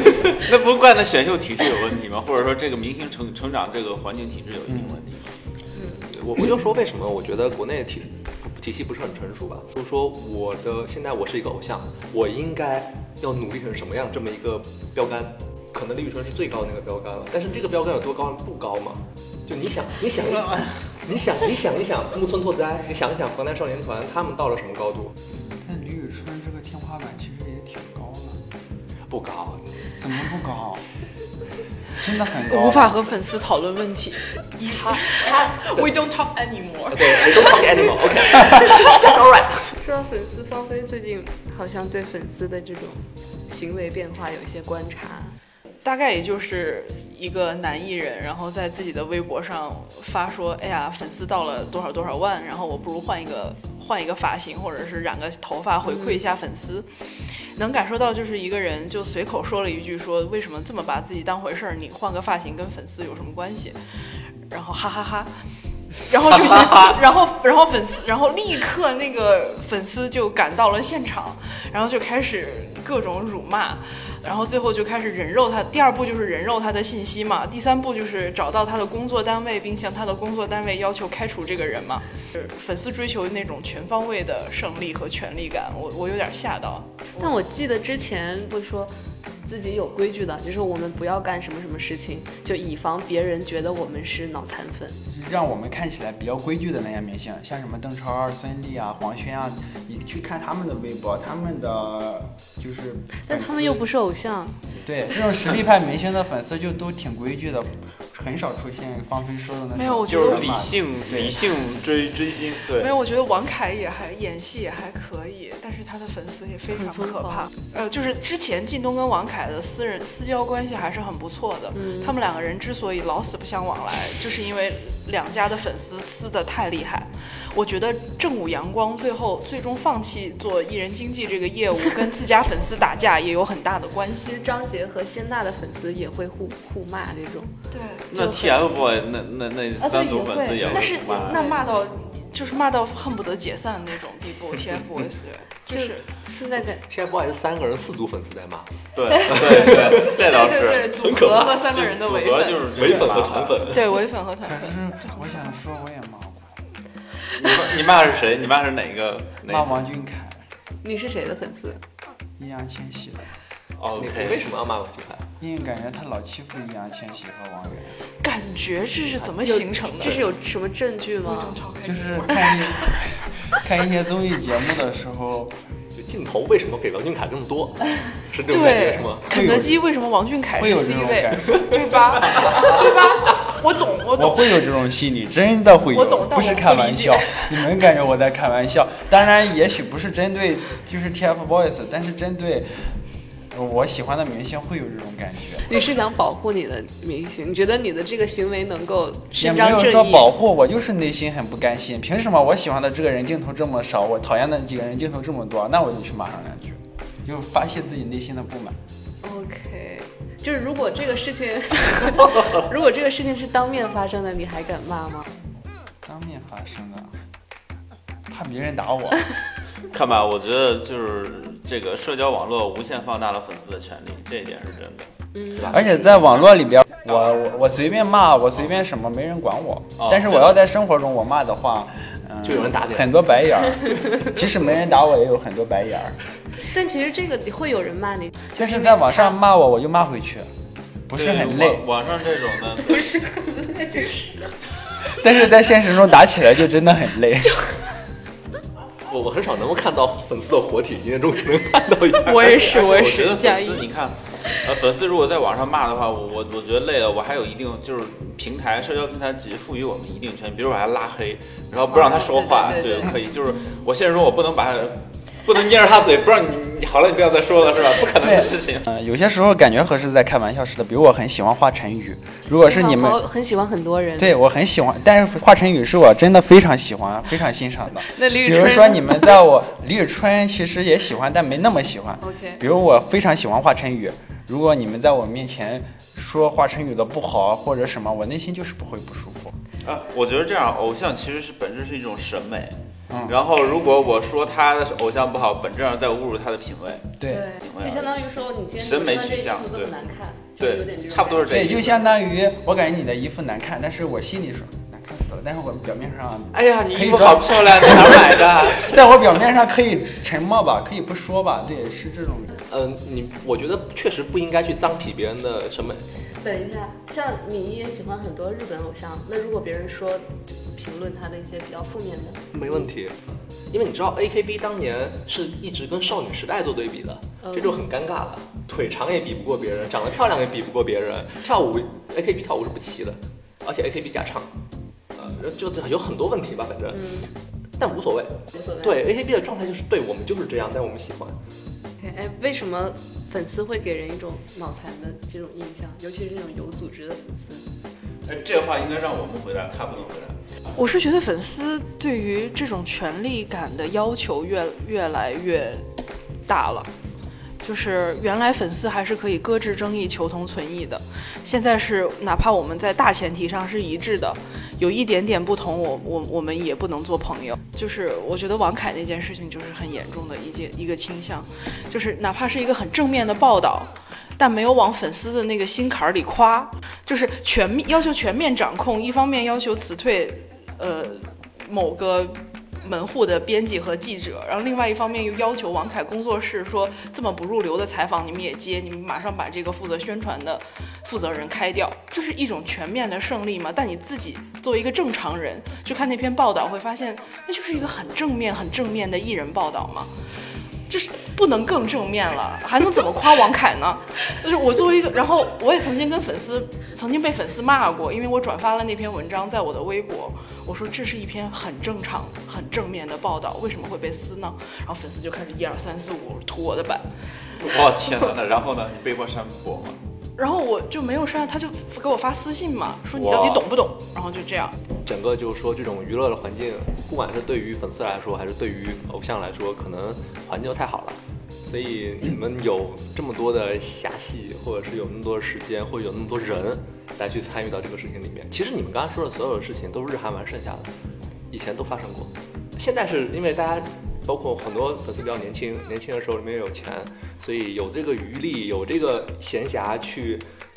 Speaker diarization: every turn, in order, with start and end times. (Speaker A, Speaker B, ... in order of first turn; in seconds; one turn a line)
Speaker A: 0.2-5.3
Speaker B: 4.7-5.0
Speaker C: 5.8-6.1
Speaker D: 6.1-25.2
Speaker B: 25.4-28.4
Speaker D: 29.1-29.7
Speaker B: 30.0-30.8
Speaker B: 32.0-33.0
Speaker E: 32.5-39.0
Speaker D: 36.9-39.8
Speaker C: 39.8-45.4
Speaker E: 45.8-63.8
Speaker E: 64.5-65.3
Speaker E: 66.0-87.3
Speaker C: 87.2-88.9
Speaker C: 89.5-95.0
Speaker B: 95.1-103.8
Speaker C: 103.2-104.6
Speaker B: 104.8-111.4
Speaker E: 109.7-110.5
Speaker A: 110.1-112.9
Speaker E: 112.7-134.4
Speaker C: 116.8-117.5
Speaker C: 121.8-122.2
Speaker C: 134.2-137.5
Speaker E: 137.7-138.3
Speaker A: 138.1-141.5
Speaker C: 138.2-138.5
Speaker C: 139.8-141.8
Speaker E: 140.7-146.1
Speaker C: 145.7-146.8
Speaker D: 146.8-150.3
Speaker A: 148.9-153.8
Speaker E: 150.2-152.7
Speaker D: 151.0-151.7
Speaker D: 152.7-153.9
Speaker E: 153.7-155.4
Speaker B: 154.4-156.5
Speaker A: 157.3-159.8
Speaker B: 159.4-160.4
Speaker C: 160.8-161.8
Speaker B: 162.4-163.3
Speaker A: 163.8-164.5
Speaker D: 164.0-165.3
Speaker B: 165.4-168.0
Speaker E: 168.2-170.3
Speaker C: 169.4-171.6
Speaker E: 171.2-172.8
Speaker B: 171.8-175.5
Speaker D: 175.9-179.3
Speaker E: 178.5-184.7
Speaker B: 179.3-179.8
Speaker B: 180.6-181.9
Speaker B: 184.2-193.0
Speaker E: 185.9-187.6
Speaker B: 193.5-195.7
Speaker C: 195.7-200.3
Speaker B: 199.4-208.8
Speaker C: 209.2-215.3
Speaker B: 216.1-217.2
Speaker B: 218.3-219.2
Speaker A: 219.9-225.1
Speaker C: 225.4-225.7
Speaker D: 225.6-225.9
Speaker A: 225.7-226.4
Speaker B: 225.7-236.2
Speaker A: 230.0-230.5
Speaker D: 232.4-233.2
Speaker C: 236.6-239.3
Speaker B: 238.6-240.5
Speaker B: 241.1-241.8
Speaker A: 241.1-243.1
Speaker C: 242.8-244.6
Speaker B: 245.0-247.6
Speaker D: 249.1-253.2
Speaker E: 252.2-253.9
Speaker A: 252.7-268.9
Speaker C: 261.9-263.2
Speaker B: 268.2-273.2
Speaker C: 272.6-274.4
Speaker B: 274.2-289.6
Speaker C: 278.0-279.4
Speaker C: 282.2-282.6
Speaker A: 289.8-298.1
Speaker B: 293.1-293.4
Speaker B: 297.2-297.5
Speaker C: 297.3-301.5
Speaker A: 298.8-299.9
Speaker A: 300.6-302.1
Speaker B: 301.5-312.6
Speaker A: 306.5-309.0
Speaker D: 312.7-316.1
Speaker C: 316.4-322.5
Speaker D: 322.5-334.5
Speaker C: 327.4-327.8
Speaker D: 335.1-337.3
Speaker D: 337.8-341.4
Speaker C: 342.0-347.6
Speaker A: 348.3-350.4
Speaker E: 350.7-355.9
Speaker E: 356.5-356.9
Speaker E: 357.6-400.1
Speaker E: 400.9-417.1
Speaker A: 417.6-420.0
Speaker E: 420.4-424.8
Speaker A: 423.2-423.6
Speaker D: 425.0-440.9
Speaker D: 441.5-450.4